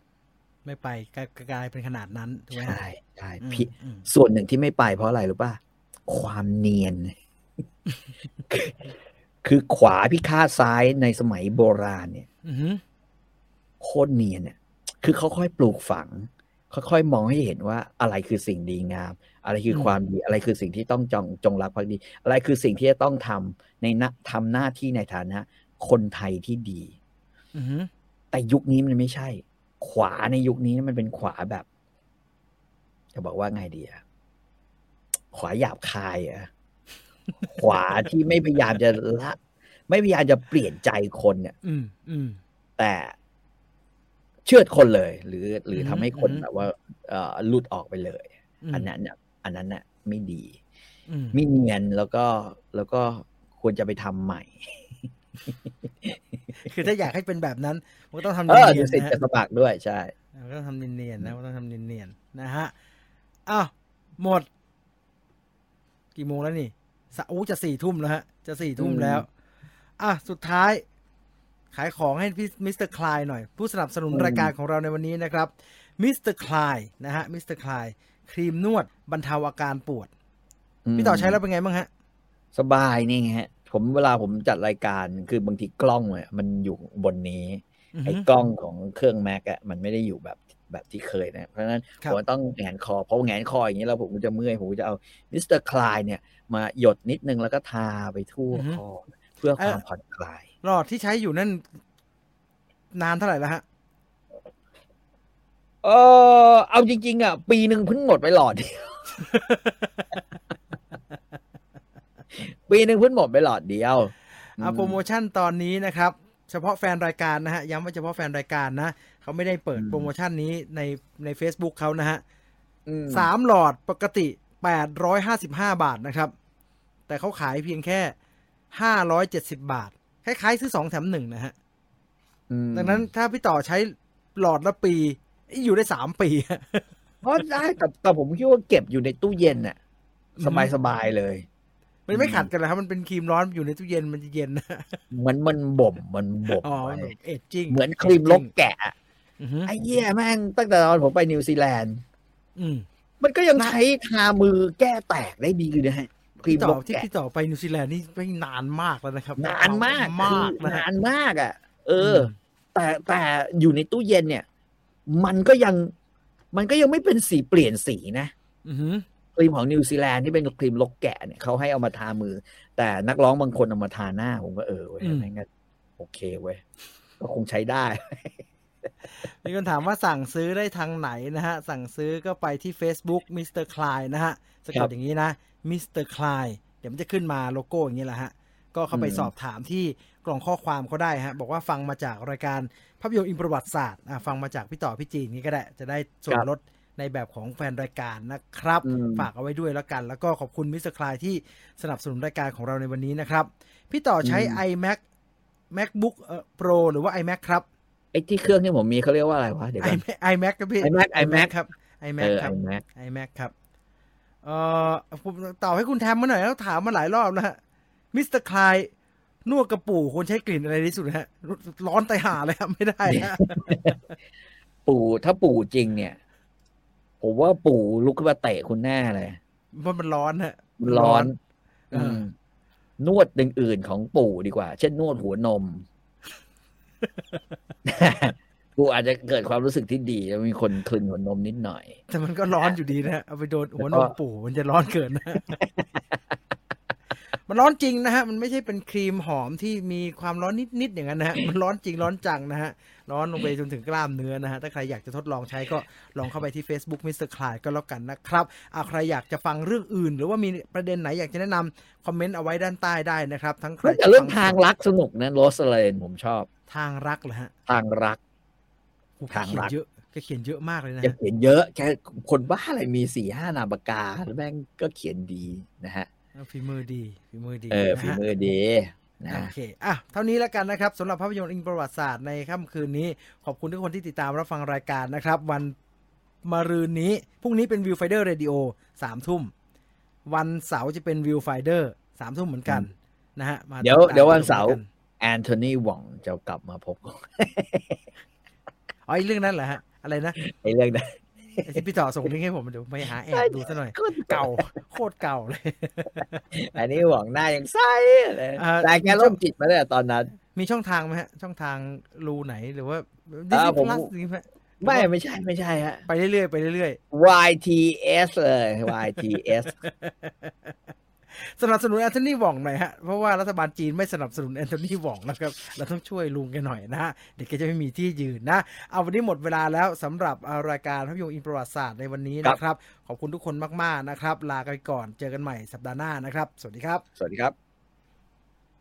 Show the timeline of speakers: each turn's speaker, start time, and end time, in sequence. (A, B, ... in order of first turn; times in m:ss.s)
0:00.6-0:02.8 A
0:02.5-0:07.1 B
0:03.4-0:04.1 A
0:08.5-0:08.8 B
0:09.4-0:12.3 B
0:12.4-0:12.8 A
0:13.8-0:27.0 B
0:19.7-0:20.0 A
0:27.5-0:27.9 A
0:28.3-0:31.7 B
0:33.1-0:34.0 B
0:35.3-0:36.5 B
0:37.4-0:41.6 B
0:41.6-0:42.4 A
0:42.8-0:43.1 B
0:44.4-0:50.6 B
0:45.7-0:46.4 A
0:48.6-0:48.9 A
0:51.1-0:51.4 A
0:51.3-0:54.9 B
0:56.6-0:59.2 A
0:58.5-1:00.1 B
1:00.4-1:02.7 A
1:03.5-1:04.5 A
1:06.2-1:09.3 A
1:08.8-1:09.2 B
1:10.0-1:10.8 A
1:11.7-1:20.1 A
1:14.1-1:14.5 B
1:20.9-1:21.4 B
1:21.0-1:21.9 A
1:22.6-1:40.4 B
1:28.0-1:28.3 A
1:38.5-1:38.8 A
1:39.6-1:39.8 A
1:40.6-1:41.6 A
1:42.9-1:43.6 A
1:45.8-1:49.2 B
1:49.2-1:50.2 A
1:52.4-1:55.0 B
1:54.6-2:02.2 A
1:59.8-2:00.1 B
2:02.9-2:03.3 B
2:03.1-2:06.3 A
2:07.1-2:08.2 A
2:08.7-2:11.5 A
2:12.5-2:13.1 B
2:12.7-2:16.9 A
2:17.2-2:19.8 B
2:20.4-2:20.7 A
2:20.4-2:21.4 B
2:22.1-2:25.0 A
2:22.1-2:22.5 B
2:25.1-2:27.1 B
2:26.6-2:28.5 A
2:27.7-2:29.0 B
2:29.4-2:29.7 A
2:29.7-2:32.0 B
2:32.6-2:32.9 A
2:33.2-2:37.1 B
2:36.4-2:40.9 A
2:39.4-2:44.4 B
2:42.0-2:42.3 A
2:45.1-2:45.9 B
2:46.5-2:48.3 B
2:48.6-2:49.1 A
2:49.4-2:55.5 B
2:55.0-2:55.3 A
2:56.0-2:56.6 B
2:57.2-2:58.4 B
2:59.2-3:25.0 A
3:08.9-3:09.3 B
3:18.8-3:19.3 B
3:24.2-3:24.6 B
3:25.7-3:27.6 A
3:28.1-3:30.0 B
3:29.8-3:33.5 A
3:30.8-3:31.5 B
3:32.2-3:32.8 B
3:34.4-3:37.6 A
3:38.1-3:38.9 A
3:39.4-3:44.2 A
3:43.1-3:44.0 B
3:44.9-3:46.2 B
3:47.2-3:49.4 B
3:49.7-3:51.3 A
3:50.8-3:51.4 B
3:51.9-3:52.2 A
3:51.9-3:52.3 B
3:53.0-3:55.9 B
3:57.8-4:02.0 B
4:02.1-4:05.6 A
4:03.8-4:04.1 B
4:07.5-4:24.6 A
4:23.8-4:26.5 B
4:26.7-4:27.5 A
4:27.7-4:28.2 B
4:29.2-4:31.2 A
4:29.3-4:29.7 B
4:31.0-4:36.1 B
4:36.4-4:38.2 A
4:37.7-4:39.5 B
4:39.3-4:45.7 A
4:46.4-4:49.5 A
4:50.3-4:54.9 A
4:53.8-4:58.0 B
4:59.1-5:00.4 A
5:00.4-5:01.7 B
5:01.6-5:06.4 A
5:03.3-5:04.7 B
5:06.5-5:10.4 B
5:08.6-5:09.4 A
5:10.5-5:15.1 A
5:13.5-5:14.1 B
5:14.8-5:16.1 B
5:16.1-5:17.0 A
5:17.1-5:19.7 B
5:19.7-5:20.8 A
5:21.3-5:37.0 A
5:37.2-5:37.6 B